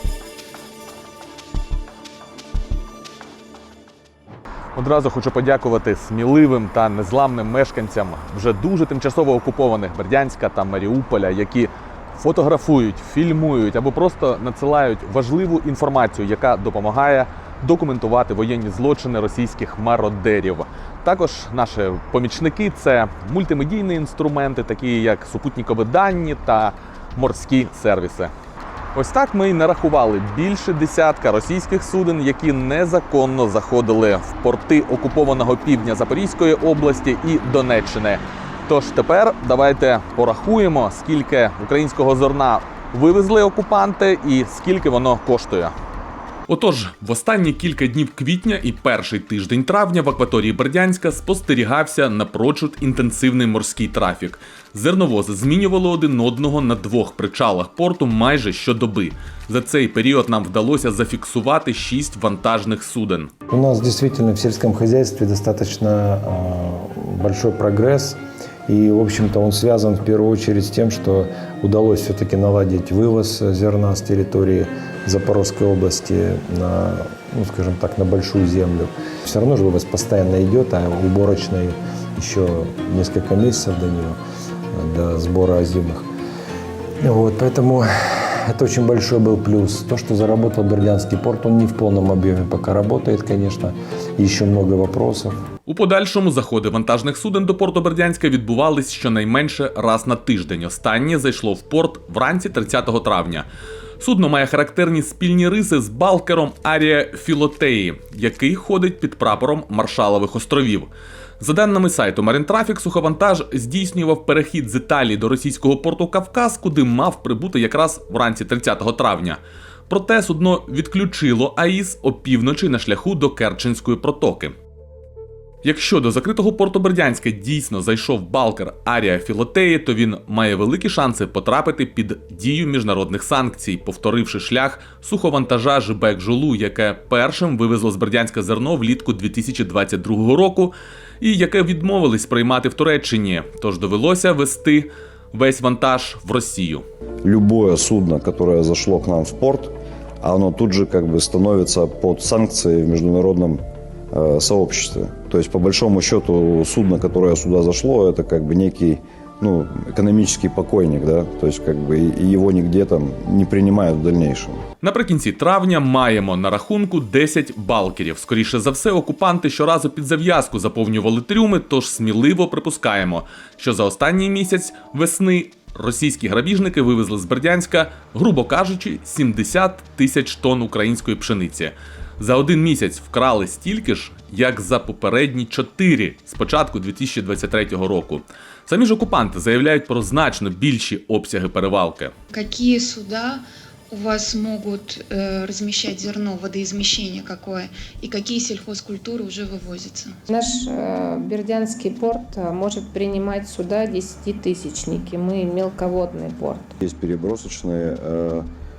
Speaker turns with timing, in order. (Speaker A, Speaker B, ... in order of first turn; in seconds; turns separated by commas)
Speaker A: 4.8-28.3, Speaker A: 28.9-45.8, Speaker A: 46.5-63.3, Speaker B: 63.5-84.2, Speaker B: 84.7-86.0, Speaker B: 87.0-95.3, Speaker A: 95.7-103.5, Speaker A: 104.0-124.5, Speaker A: 125.6-146.8, Speaker C: 147.2-153.6, Speaker C: 154.1-164.6, Speaker A: 164.8-192.1, Speaker D: 192.3-200.3, Speaker E: 200.3-206.7, Speaker C: 206.8-208.5